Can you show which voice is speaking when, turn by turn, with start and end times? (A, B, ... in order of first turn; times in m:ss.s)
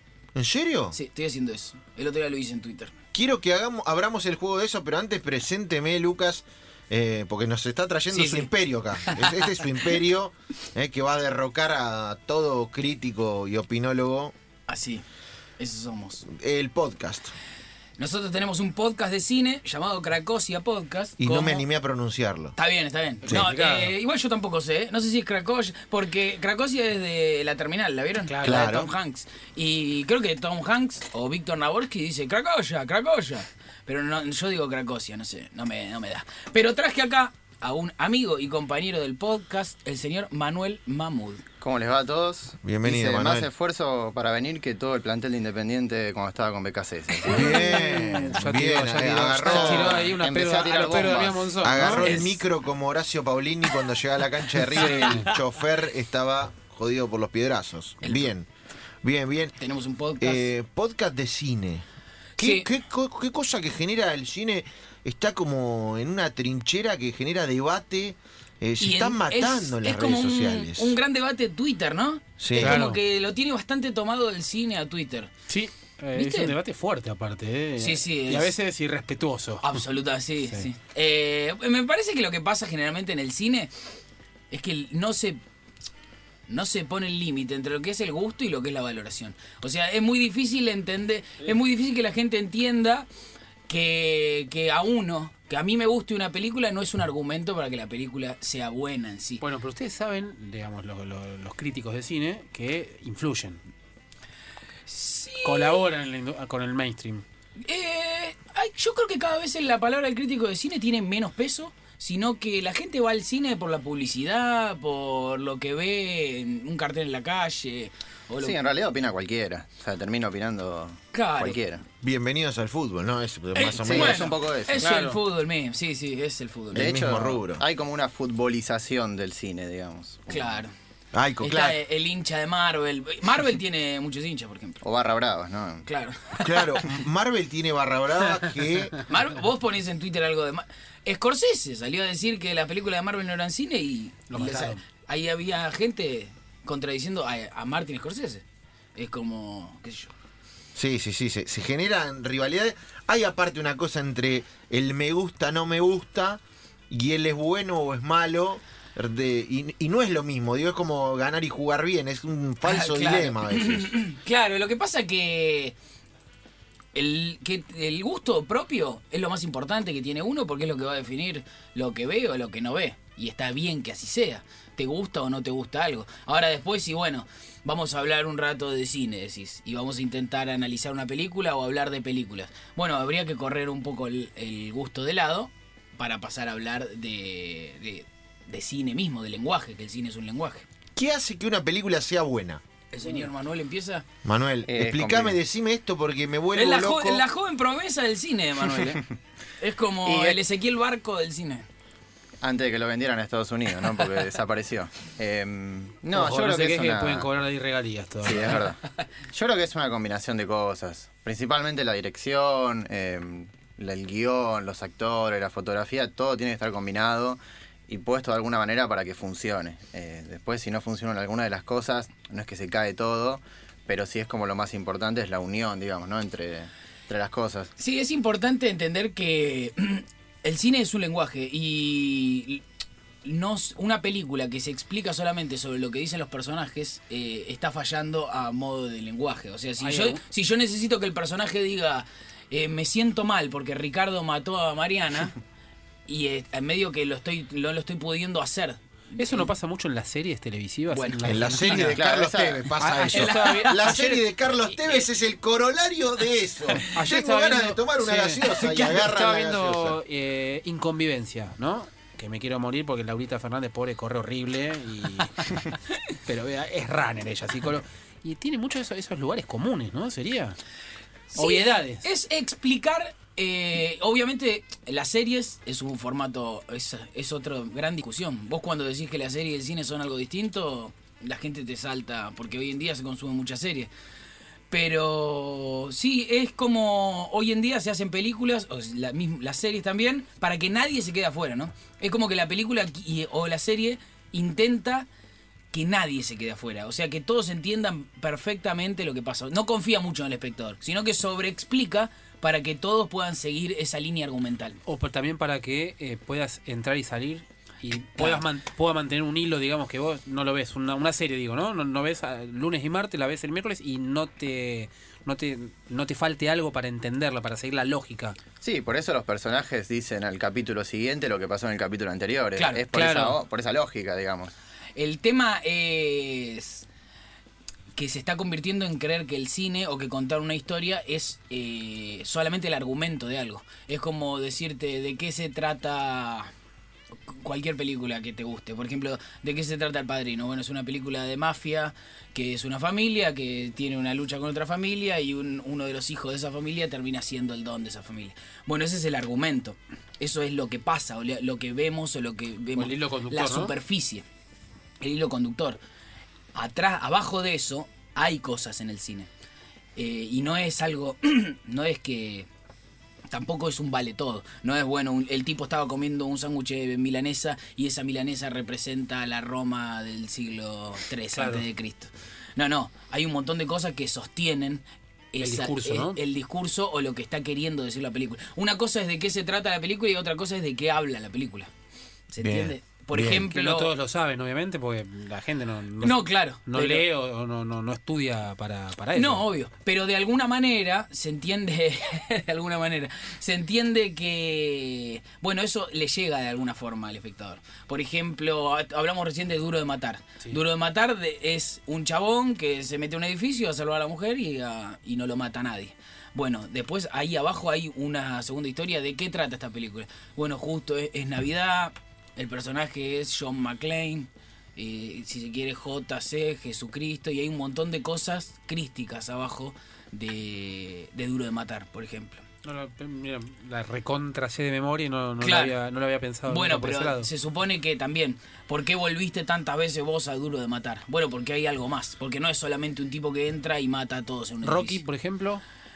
0:00.4-0:01.0 A
0:00.9-0:03.0 B
0:03.1-0:14.3 A
0:08.1-0:08.5 B
0:09.0-0:09.8 B
0:14.7-0:15.0 B
0:15.6-0:16.3 B
0:16.3-0:17.4 A
0:18.0-0:21.6 B
0:21.2-0:22.6 A
0:22.6-0:41.4 B
0:23.3-0:23.9 C
0:28.3-0:28.6 C
0:28.4-0:28.9 A
0:41.6-0:47.7 D
0:42.6-0:43.5 A
0:47.3-0:48.4 B
0:47.3-0:50.1 A
0:47.4-0:52.3 C
0:49.3-0:52.4 D
0:51.6-0:58.5 A
0:52.0-0:52.3 B
0:54.6-0:55.4 B
0:54.8-0:55.3 C
0:58.0-0:58.3 B
0:59.0-0:59.6 A
0:59.6-1:00.5 B
1:00.2-1:01.8 A
1:02.4-1:02.7 B
1:02.4-1:11.0 A
1:08.8-1:15.3 B
1:12.4-1:12.8 A
1:12.6-1:13.0 C
1:15.5-1:19.8 C
1:16.2-1:16.6 B
1:17.8-1:18.5 B
1:19.6-1:23.7 B
1:24.5-1:25.4 B
1:26.5-1:33.1 B
1:33.7-1:39.4 B
1:39.4-1:43.6 C
1:44.9-1:45.9 B
1:45.4-1:47.2 C
1:47.6-1:58.6 B
1:58.4-2:01.8 D
2:01.1-2:01.6 B
2:02.0-2:04.4 A
2:03.6-2:07.0 B
2:03.6-2:04.9 D
2:04.8-2:05.2 C
2:06.7-2:07.6 A
2:06.7-2:10.6 D
2:10.3-2:10.7 B
2:11.1-2:11.8 A
2:11.4-2:14.8 B
2:14.8-2:15.9 D
2:15.9-2:16.9 B
2:16.4-2:19.0 A
2:19.0-2:28.4 B
2:24.3-2:24.8 C
2:29.0-2:30.1 B
2:30.8-2:43.9 A
2:42.6-2:45.8 B
2:46.9-3:10.7 B
3:11.0-3:12.6 A
3:12.9-3:14.1 B
3:14.2-3:17.2 A
3:14.7-3:15.4 D
3:16.5-3:19.0 B
3:19.6-3:21.7 B
3:20.0-3:20.4 D
3:22.4-3:27.3 D
3:26.1-3:28.7 C
3:28.2-3:28.8 D
3:29.3-3:47.7 D
3:47.8-3:52.6 B
3:53.2-4:05.4 B
3:59.8-4:00.2 C
4:06.1-4:09.5 B
4:09.2-4:12.0 C
4:10.9-4:11.9 B
4:11.2-4:20.0 A
4:11.7-4:12.7 D
4:12.8-4:14.2 C
4:13.1-4:14.2 B
4:16.8-4:30.6 C
4:31.3-4:43.9 B
4:31.4-4:32.1 C
4:44.7-4:55.1 B
4:55.7-5:04.8 B
5:04.9-5:18.4 C
5:08.2-5:08.4 B
5:18.6-5:24.5 D
5:22.9-5:23.4 C
5:25.0-5:26.9 B
5:28.0-5:36.5 B
5:37.3-5:54.2 B
5:52.8-5:53.7 C
5:55.0-5:55.8 B
5:56.5-5:59.3 B
6:00.0-6:02.5 B
6:03.3-6:21.7 B
6:11.3-6:11.6 C
6:15.4-6:16.2 C
6:22.3-6:23.9 B
6:22.4-6:23.5 A
6:23.4-6:29.4 C
6:26.0-6:27.1 B
6:29.2-7:02.4 B
7:02.6-7:07.3 C
7:05.4-7:05.7 B
7:06.5-7:15.0 B
7:14.6-7:15.6 C